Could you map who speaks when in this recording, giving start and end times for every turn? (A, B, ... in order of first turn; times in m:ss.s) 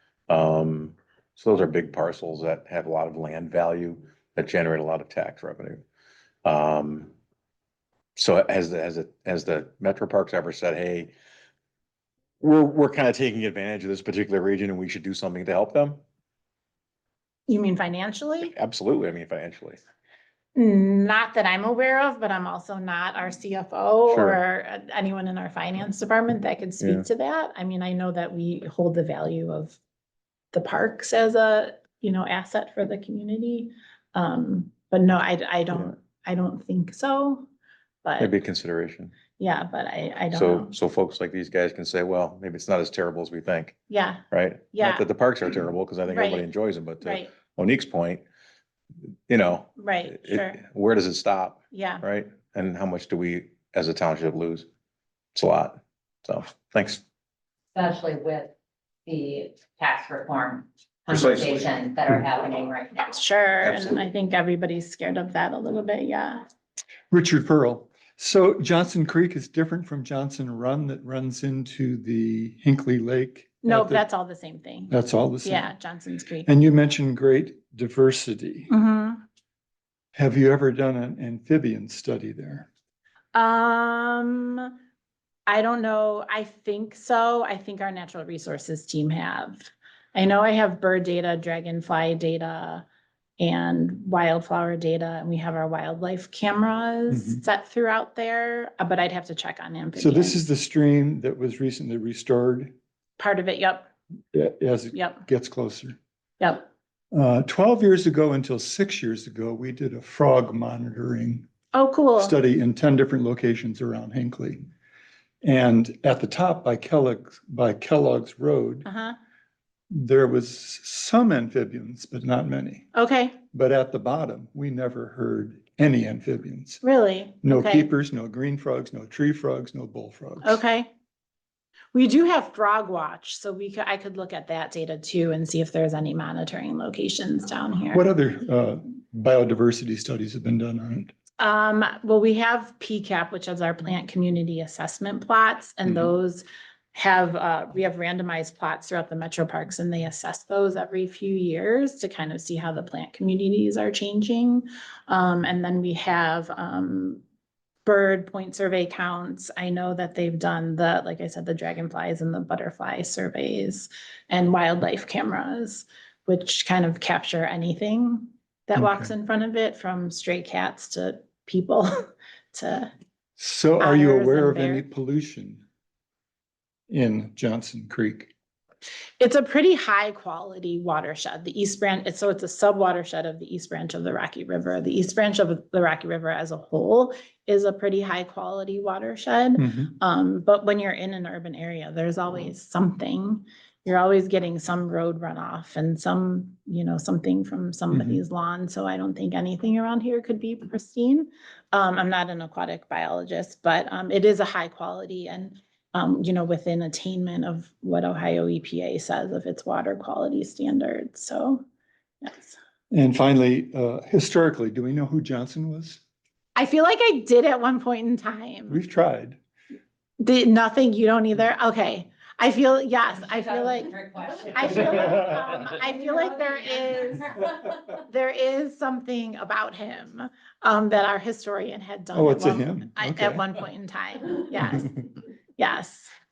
0:00.3-0:05.8 A
0:06.4-0:07.1 A
0:08.2-0:11.1 A
0:12.4-0:16.0 A
0:17.5-0:18.5 B
0:18.4-0:19.8 A
0:20.5-0:29.8 B
0:24.1-0:24.4 A
0:26.8-0:27.0 A
0:30.5-0:37.5 B
0:38.0-0:38.3 B
0:38.2-0:39.1 A
0:39.4-0:40.7 B
0:40.3-0:43.7 A
0:43.9-0:45.0 B
0:44.3-0:48.2 A
0:46.1-0:46.5 B
0:47.0-0:47.3 B
0:49.3-0:54.7 A
0:49.8-0:50.6 B
0:51.7-0:52.0 B
0:55.3-0:57.0 A
0:57.7-0:58.5 C
0:59.0-1:03.0 C
1:01.1-1:01.7 A
1:03.0-1:06.4 B
1:03.6-1:04.0 A
1:07.1-1:14.0 D
1:13.6-1:16.5 B
1:14.9-1:15.7 D
1:16.4-1:18.7 D
1:18.7-1:19.2 B
1:20.1-1:22.7 D
1:23.3-1:24.7 B
1:25.5-1:32.8 B
1:33.4-1:40.4 B
1:37.1-1:37.4 D
1:40.0-1:42.7 D
1:43.2-1:43.9 B
1:44.3-1:46.0 D
1:44.9-1:45.2 B
1:46.4-1:46.7 B
1:47.1-1:51.5 D
1:51.7-1:52.4 B
1:52.2-1:54.6 D
1:55.4-1:58.9 D
1:58.8-1:59.2 B
1:59.9-2:02.9 D
2:02.9-2:03.4 B
2:03.5-2:06.8 D
2:06.8-2:07.9 B
2:07.4-2:10.6 D
2:10.4-2:10.9 B
2:11.9-2:18.0 B
2:17.9-2:21.1 D
2:21.4-2:37.2 B
2:37.8-2:52.9 B
2:48.8-2:49.1 D
2:53.4-2:55.6 D
2:53.8-2:54.8 B
2:56.9-2:58.3 D
2:59.2-3:31.6 B
3:09.6-3:09.9 D
3:17.9-3:18.2 D
3:32.2-3:32.6 B
3:32.9-3:36.0 D
3:36.6-3:38.8 B
3:38.7-3:39.4 D
3:40.2-3:43.9 B
3:43.1-3:47.8 C
3:44.5-3:56.1 B
3:52.1-3:53.5 D